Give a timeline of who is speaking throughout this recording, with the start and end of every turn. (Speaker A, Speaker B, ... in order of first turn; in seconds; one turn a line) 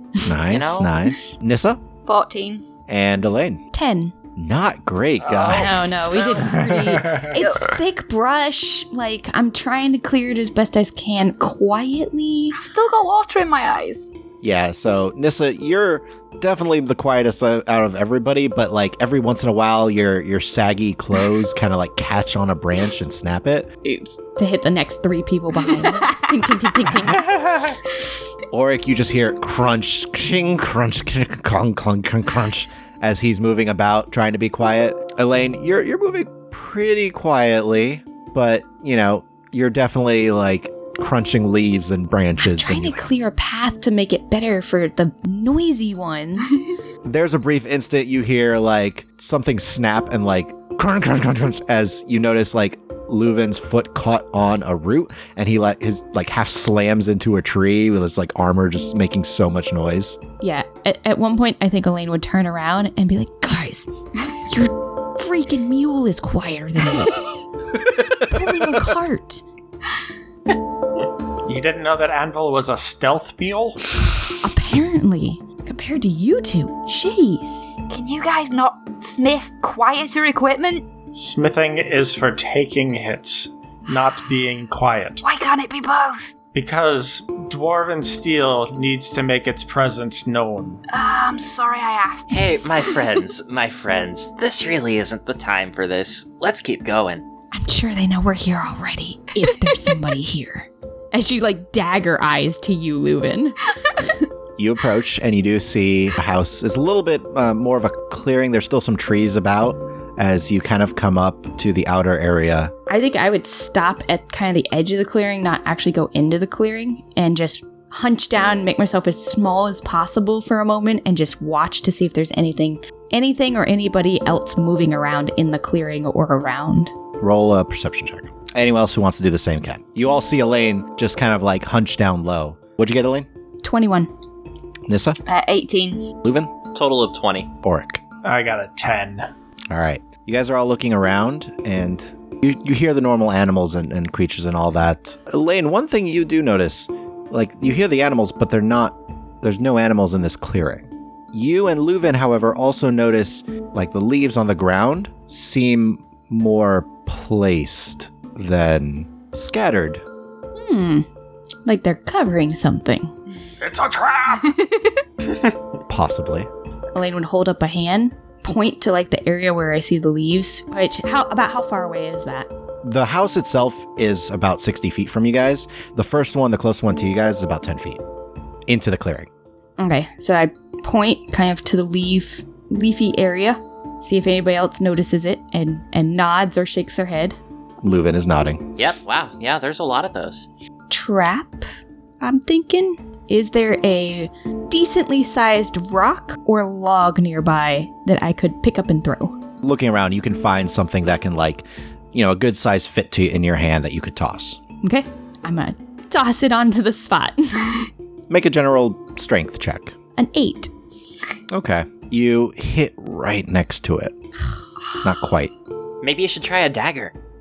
Speaker A: 0.2-1.8
Speaker B: 0.5-0.9
Speaker C: 2.0-2.6
Speaker A: 2.9-3.6
Speaker D: 3.7-4.1
Speaker A: 4.3-6.3
Speaker C: 5.2-6.6
Speaker D: 5.5-12.6
Speaker E: 6.4-7.3
Speaker C: 7.3-7.7
Speaker C: 12.5-14.1
Speaker A: 14.4-23.7
Speaker C: 23.8-24.2
Speaker D: 24.4-27.3
Speaker C: 25.6-26.6
Speaker E: 27.1-27.8
Speaker A: 28.5-43.0
Speaker D: 42.4-46.6
Speaker A: 47.0-60.2
Speaker D: 60.4-63.9
Speaker D: 64.5-67.3
Speaker A: 67.9-68.3
Speaker D: 68.1-69.4
Speaker E: 71.4-73.8
Speaker D: 74.4-77.7
Speaker C: 77.9-80.9
Speaker E: 81.1-85.2
Speaker C: 85.2-86.3
Speaker E: 86.5-90.8
Speaker C: 90.9-93.0
Speaker B: 92.3-97.2
Speaker D: 97.5-104.3
Speaker A: 104.6-112.7
Speaker D: 112.9-126.9
Speaker A: 127.2-133.3
Speaker D: 133.6-134.1
Speaker A: 134.9-135.2
Speaker C: 135.2-136.1
Speaker A: 136.2-136.5
Speaker B: 136.7-137.5
Speaker A: 137.6-138.0
Speaker E: 138.2-139.3
Speaker A: 139.7-160.0
Speaker D: 160.5-161.1
Speaker D: 161.6-163.1
Speaker E: 163.6-164.6
Speaker C: 164.4-165.0
Speaker A: 165.9-166.5
Speaker D: 166.9-172.5
Speaker A: 172.8-178.0
Speaker A: 178.7-179.3
Speaker D: 179.8-187.4
Speaker A: 187.8-188.7
Speaker B: 188.8-190.5
Speaker D: 190.9-191.7
Speaker D: 192.2-199.4
Speaker A: 199.6-204.6
Speaker D: 204.8-207.9
Speaker A: 208.3-209.9
Speaker D: 210.2-210.7
Speaker A: 211.5-214.1
Speaker A: 215.0-215.5
Speaker B: 216.0-217.1